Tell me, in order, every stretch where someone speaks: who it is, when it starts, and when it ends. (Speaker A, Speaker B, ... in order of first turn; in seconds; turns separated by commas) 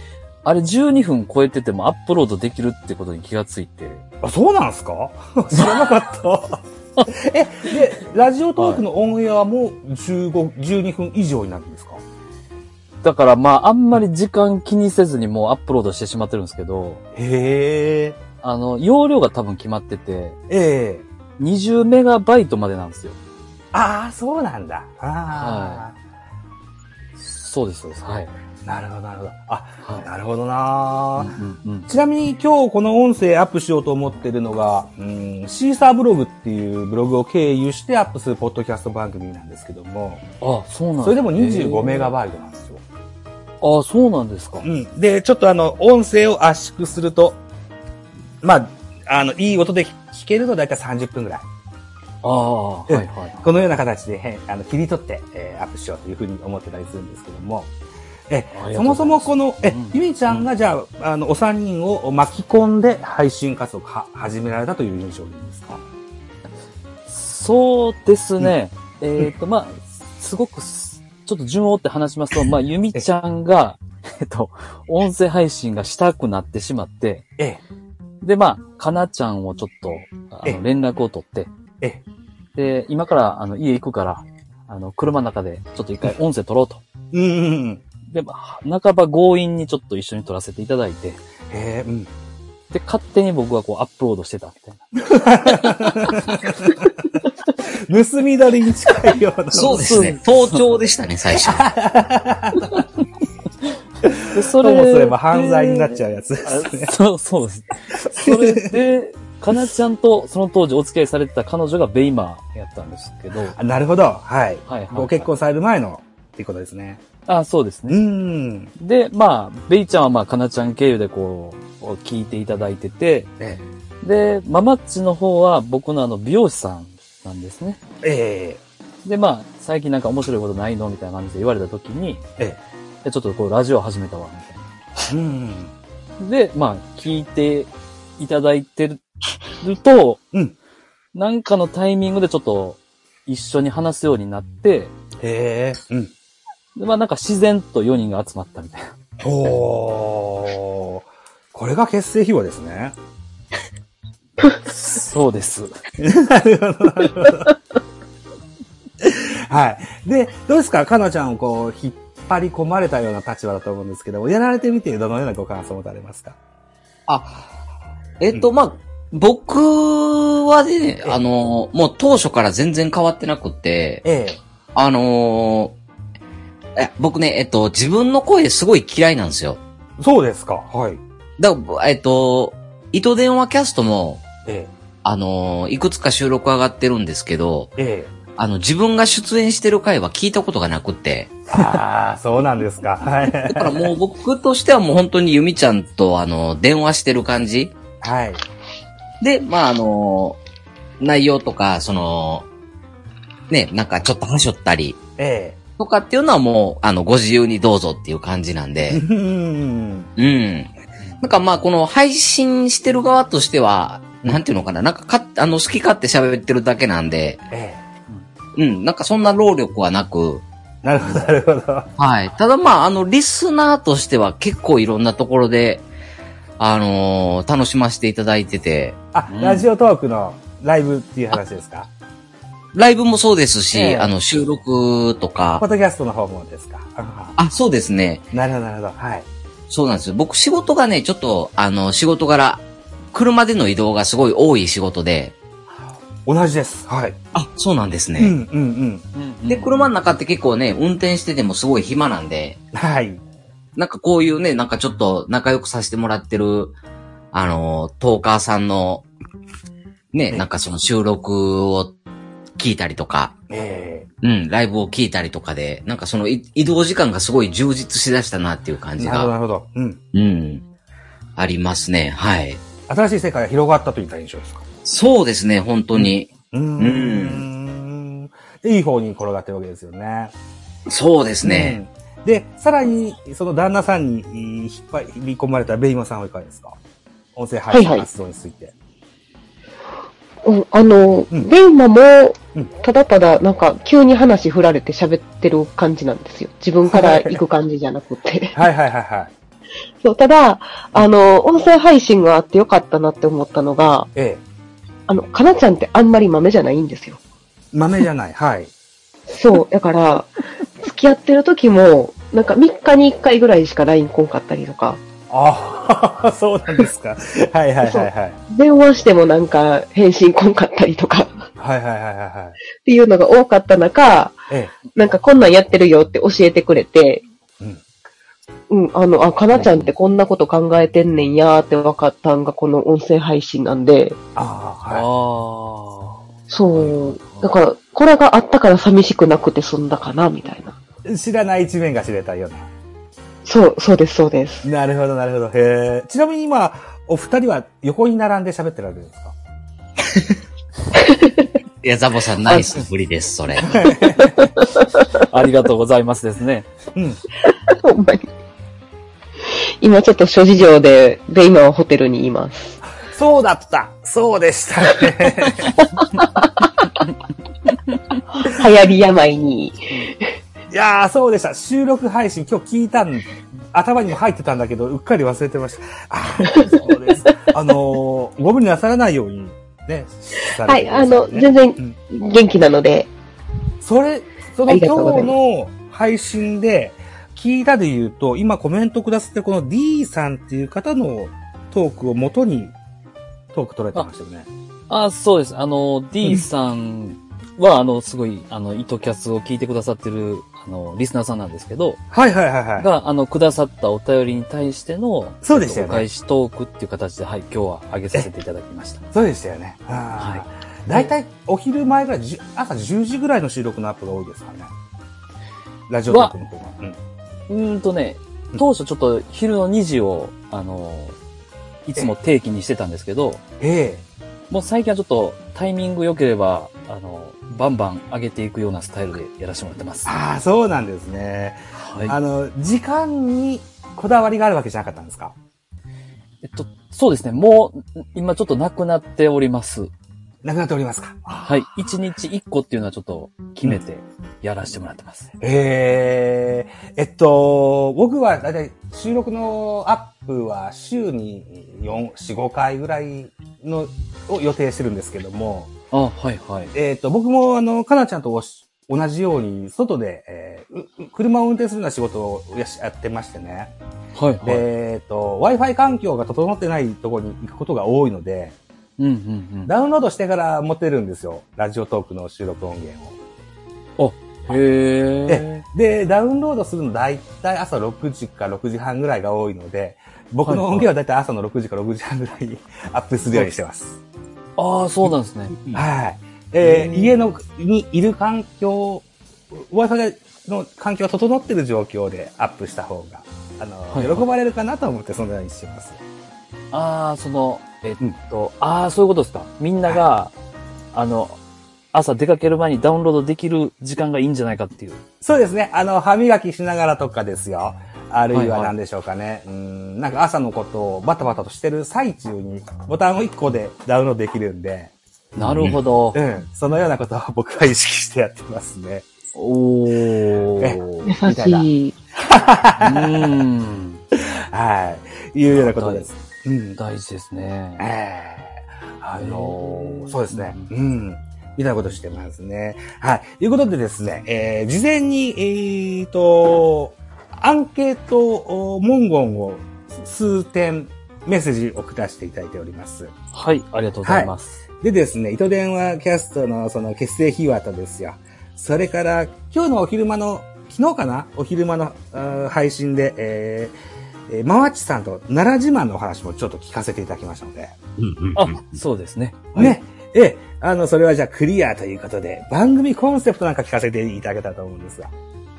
Speaker A: 0.5-4.0, Speaker B: 4.2-12.0, Speaker A: 13.0-17.0, Speaker B: 17.1-18.2, Speaker A: 18.4-20.4, Speaker B: 20.5-21.1, Speaker A: 21.4-23.2, Speaker B: 23.7-26.0, Speaker A: 25.3-25.8, Speaker A: 27.2-28.3, Speaker B: 28.6-31.3, Speaker A: 31.2-31.9, Speaker B: 31.9-40.2, Speaker A: 40.4-42.1, Speaker B: 41.0-42.8, Speaker A: 43.6-44.7, Speaker B: 44.6-47.4, Speaker B: 48.4-51.5, Speaker A: 52.2-53.4, Speaker B: 52.9-57.7, Speaker B: 58.3-65.8, Speaker A: 58.5-60.5, Speaker A: 67.1-77.3, Speaker A: 78.2-81.5, Speaker A: 82.5-86.8, Speaker B: 87.1-87.8, Speaker A: 88.1-91.2, Speaker B: 91.5-92.1, Speaker A: 92.7-94.8, Speaker B: 95.0-96.9, Speaker B: 97.7-100.1, Speaker C: 99.5-101.7, Speaker A: 99.7-100.6, Speaker B: 101.3-102.8, Speaker B: 104.0-106.9, Speaker A: 104.3-113.6, Speaker B: 108.1-108.7, Speaker B: 113.5-117.0, Speaker A: 114.7-115.3, Speaker A: 117.3-118.0, Speaker B: 117.9-118.7, Speaker A: 118.8-123.3, Speaker A: 124.0-127.8, Speaker B: 128.0-128.6, Speaker A: 129.1-132.2, Speaker A: 133.0-134.6, Speaker B: 135.1-135.7, Speaker A: 136.2-139.0, Speaker A: 139.6-140.2, Speaker A: 141.1-144.9, Speaker B: 145.2-146.1, Speaker A: 146.8-148.9, Speaker B: 149.2-152.9, Speaker A: 154.7-155.8, Speaker B: 156.0-157.6, Speaker B: 159.0-166.4, Speaker C: 167.1-167.5, Speaker C: 168.2-174.1, Speaker B: 174.0-174.4, Speaker C: 174.8-175.8, Speaker C: 176.8-179.6, Speaker B: 180.0-181.0, Speaker C: 181.4-184.2, Speaker B: 184.5-184.7, Speaker C: 185.0-187.7, Speaker B: 187.8-188.1, Speaker C: 188.4-191.7, Speaker B: 191.5-193.9, Speaker C: 193.4-197.8, Speaker B: 198.0-198.4, Speaker C: 199.2-200.4, Speaker C: 201.0-202.5, Speaker C: 203.5-205.0, Speaker B: 205.2-205.6, Speaker C: 205.8-209.0, Speaker B: 208.9-210.1, Speaker C: 210.2-217.4, Speaker B: 217.5-217.8, Speaker C: 218.6-220.4, Speaker B: 220.8-221.9, Speaker C: 222.0-225.8, Speaker C: 226.6-229.0, Speaker B: 229.1-231.9, Speaker A: 229.3-229.7, Speaker C: 232.7-235.6, Speaker B: 233.7-234.1, Speaker B: 235.6-237.4, Speaker C: 237.4-238.2, Speaker B: 238.3-239.3, Speaker C: 239.7-245.3, Speaker B: 246.3-247.2, Speaker C: 247.3-248.3, Speaker B: 248.2-249.1, Speaker A: 249.1-249.9, Speaker C: 249.5-252.6, Speaker B: 252.7-253.2, Speaker C: 253.8-256.8, Speaker C: 257.3-259.1, Speaker C: 260.1-262.0, Speaker C: 262.6-263.4, Speaker B: 263.5-264.1, Speaker C: 264.2-269.3, Speaker B: 269.0-270.0, Speaker C: 270.1-270.6, Speaker C: 271.4-272.6, Speaker B: 272.9-274.6, Speaker C: 274.9-277.4, Speaker B: 275.9-280.3, Speaker C: 280.9-281.8, Speaker B: 281.4-286.8, Speaker B: 287.4-288.7, Speaker D: 287.7-288.1, Speaker D: 290.4-298.6, Speaker B: 296.9-297.4, Speaker B: 298.5-299.3, Speaker D: 300.0-304.1, Speaker B: 304.1-304.4, Speaker D: 305.1-307.2, Speaker B: 307.7-308.7, Speaker D: 309.3-315.0, Speaker B: 315.3-318.4, Speaker D: 317.8-321.4, Speaker B: 321.6-322.6, Speaker D: 322.8-324.4, Speaker D: 324.9-327.2, Speaker D: 328.7-334.2, Speaker A: 329.6-329.8, Speaker B: 334.4-335.1, Speaker A: 334.9-336.2, Speaker D: 336.5-340.8, Speaker A: 336.9-337.4, Speaker B: 341.1-342.7, Speaker D: 343.4-344.7, Speaker B: 344.6-349.3, Speaker D: 351.0-351.4, Speaker C: 351.8-353.9, Speaker B: 353.7-354.5, Speaker D: 354.2-355.1, Speaker A: 355.2-356.7, Speaker B: 356.9-357.2, Speaker D: 357.5-358.3, Speaker D: 359.8-362.8, Speaker B: 362.9-365.8, Speaker D: 366.0-366.9, Speaker D: 368.3-370.3, Speaker B: 370.7-382.0, Speaker D: 376.4-376.9, Speaker D: 380.6-383.1, Speaker B: 383.8-392.7, Speaker D: 384.7-385.3, Speaker B: 393.5-394.5, Speaker A: 394.9-402.0, Speaker B: 402.1-402.9, Speaker A: 402.8-409.0, Speaker B: 405.4-406.1, Speaker B: 409.1-414.7, Speaker A: 410.2-411.1, Speaker B: 415.9-417.0, Speaker A: 416.1-416.3, Speaker A: 417.5-421.2, Speaker A: 421.9-423.4, Speaker B: 423.6-424.0, Speaker A: 424.5-430.1, Speaker B: 430.1-435.4, Speaker A: 431.8-432.2, Speaker A: 436.4-439.9, Speaker B: 440.4-441.6, Speaker A: 441.4-445.3, Speaker B: 445.4-455.7, Speaker A: 455.9-456.7, Speaker B: 456.7-463.7, Speaker A: 464.1-464.6, Speaker B: 464.4-468.6, Speaker A: 469.0-469.7, Speaker B: 469.7-473.2, Speaker A: 474.0-475.6, Speaker B: 475.3-484.0, Speaker A: 480.5-480.9, Speaker A: 484.6-485.6, Speaker B: 485.7-496.0, Speaker A: 486.6-487.1, Speaker A: 493.9-494.3, Speaker A: 496.7-500.3, Speaker A: 500.9-501.4, Speaker A: 501.9-505.0, Speaker B: 505.2-514.9, Speaker A: 508.3-508.7, Speaker A: 515.4-516.2, Speaker B: 516.1-519.1, Speaker A: 519.4-521.1, Speaker B: 520.6-523.4, Speaker D: 521.1-522.0, Speaker A: 522.8-524.0, Speaker B: 524.1-526.8, Speaker A: 525.6-526.1, Speaker A: 526.8-527.9, Speaker B: 527.8-543.1, Speaker A: 529.2-530.7, Speaker A: 543.3-544.6, Speaker B: 544.0-544.3, Speaker B: 544.8-553.7, Speaker B: 554.3-557.8, Speaker C: 558.0-558.6, Speaker A: 558.3-559.8, Speaker B: 559.5-565.1